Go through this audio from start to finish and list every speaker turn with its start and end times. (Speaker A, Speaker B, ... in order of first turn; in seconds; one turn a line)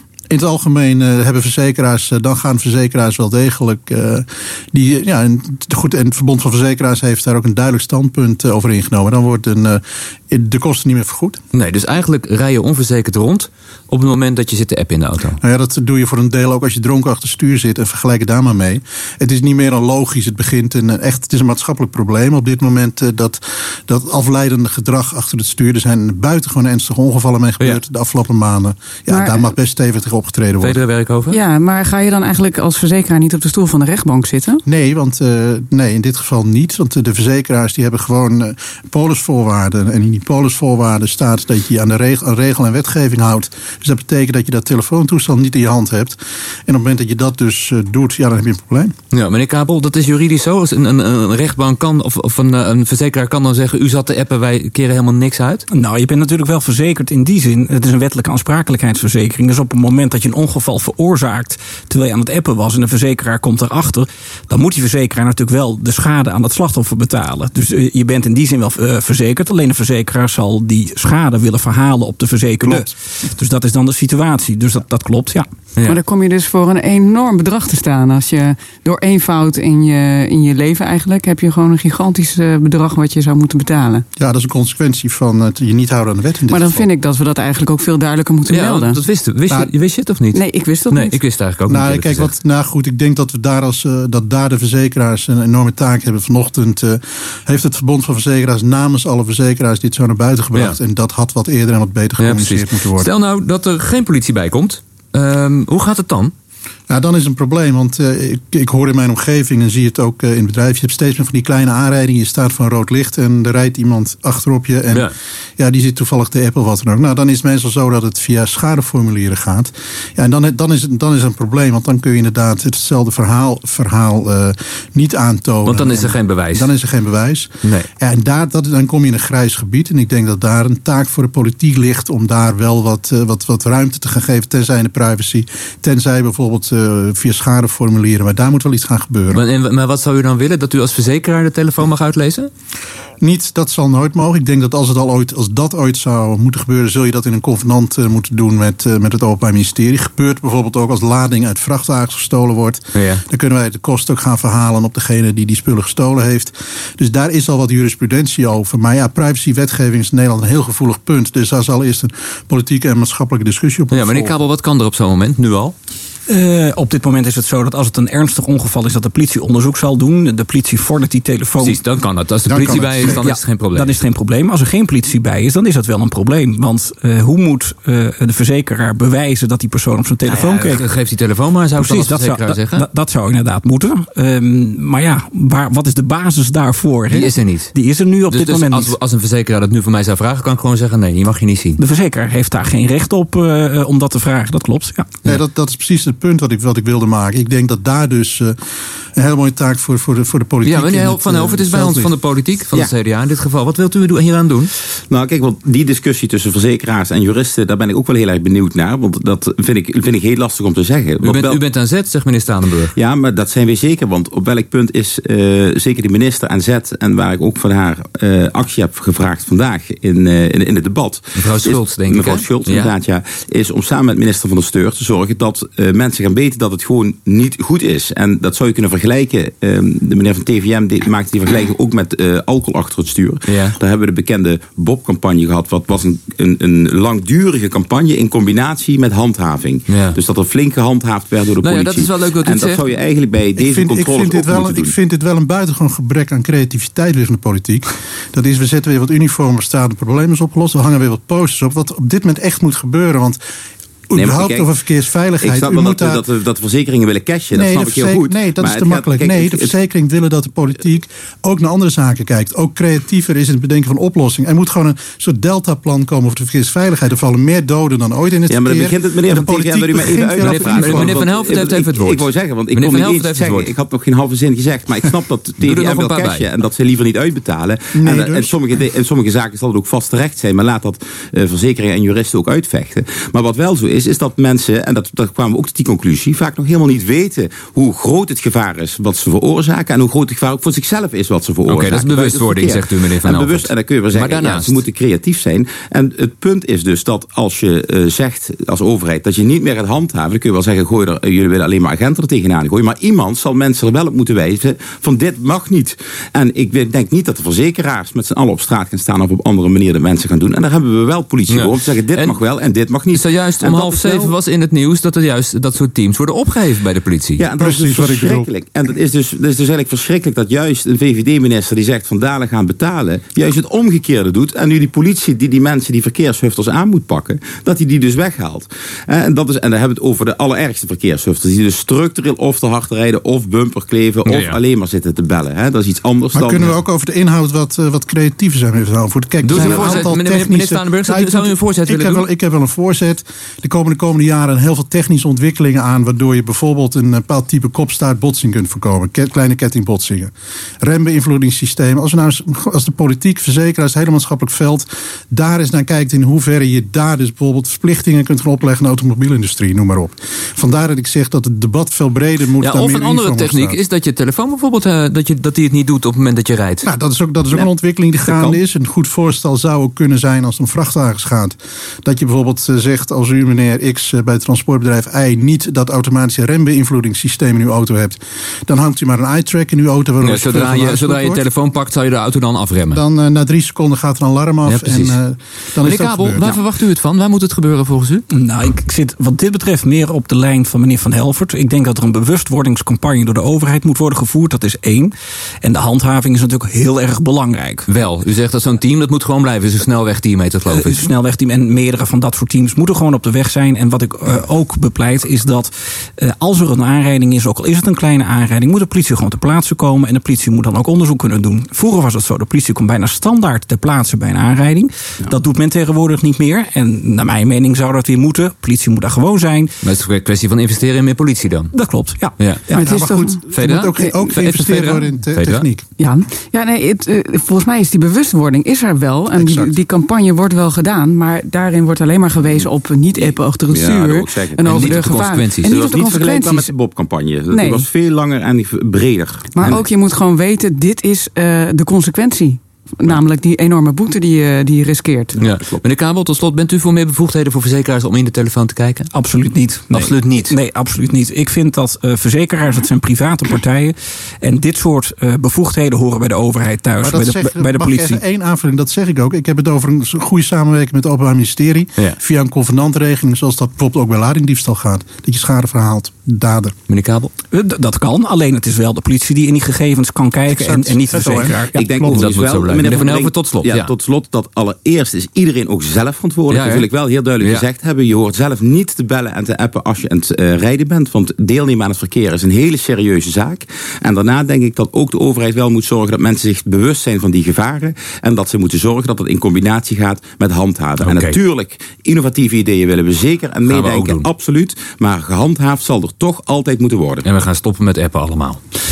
Speaker A: 0.3-11.4
Speaker B: 11.5-15.4
Speaker A: 15.4-30.8
Speaker C: 29.1-29.5
Speaker B: 30.6-31.4
Speaker C: 31.3-34.6
Speaker A: 34.6-48.9
Speaker B: 49.1-55.6
Speaker D: 55.7-75.5
Speaker A: 72.6-72.9
Speaker C: 75.8-84.0
Speaker A: 84.2-86.9
Speaker C: 86.5-89.0
Speaker B: 88.5-92.3
Speaker C: 90.3-91.2
Speaker A: 91.7-103.1
Speaker B: 102.2-106.3
Speaker A: 106.9-139.4
Speaker B: 125.6-126.7
Speaker B: 127.6-127.9
Speaker B: 139.3-142.5
Speaker A: 143.2-164.3
Speaker B: 152.9-153.2
Speaker B: 163.9-165.7
Speaker D: 166.3-171.8
Speaker B: 171.6-174.0
Speaker A: 172.4-173.2
Speaker D: 172.5-180.9
Speaker B: 180.2-182.8
Speaker D: 181.8-188.9
Speaker B: 187.1-187.7
Speaker B: 188.3-191.8
Speaker D: 191.8-195.2
Speaker A: 195.2-198.6
Speaker A: 199.2-202.1
Speaker B: 200.6-204.7
Speaker E: 205.1-211.6
Speaker B: 211.2-212.9
Speaker E: 212.9-244.9
Speaker B: 221.3-222.9
Speaker B: 233.5-233.8
Speaker B: 239.9-240.2
Speaker B: 241.6-242.8
Speaker A: 243.6-253.4
Speaker A: 254.1-256.2
Speaker E: 254.2-254.7
Speaker E: 255.4-259.7
Speaker A: 257.5-271.2
Speaker E: 268.5-314.3
Speaker B: 270.4-273.7
Speaker B: 275.6-276.4
Speaker A: 277.9-278.6
Speaker B: 291.6-294.8
Speaker B: 311.5-312.4
Speaker B: 313.1-317.4
Speaker E: 317.4-336.7
Speaker A: 317.6-318.5
Speaker B: 334.2-334.6
Speaker A: 336.3-350.3
Speaker B: 339.4-342.2
Speaker E: 339.5-340.0
Speaker A: 350.8-363.8
Speaker B: 362.6-366.9
Speaker A: 366.8-381.4
Speaker E: 368.2-368.6
Speaker B: 380.2-383.0
Speaker A: 382.9-386.6
Speaker B: 384.6-385.2
Speaker B: 385.8-388.2
Speaker D: 388.3-397.9
Speaker B: 397.9-401.1
Speaker D: 400.7-419.7
Speaker B: 419.8-421.7
Speaker D: 421.7-422.8
Speaker B: 422.4-422.7
Speaker C: 422.7-423.4
Speaker A: 422.8-425.8
Speaker B: 423.5-425.6
Speaker C: 426.0-436.7
Speaker A: 429.3-429.7
Speaker E: 433.6-435.0
Speaker B: 434.6-435.7
Speaker E: 435.6-439.8
Speaker C: 437.5-437.9
Speaker C: 439.5-445.4
Speaker E: 445.4-445.8
Speaker B: 445.4-449.1
Speaker D: 449.1-458.2
Speaker B: 449.9-450.6
Speaker A: 457.0-466.7
Speaker B: 466.9-467.3
Speaker D: 467.5-472.4
Speaker A: 470.5-471.6
Speaker E: 471.7-497.2
Speaker B: 472.1-473.9
Speaker B: 476.5-476.9
Speaker B: 477.4-477.6
Speaker B: 491.0-491.4
Speaker B: 493.7-494.3
Speaker B: 497.2-498.6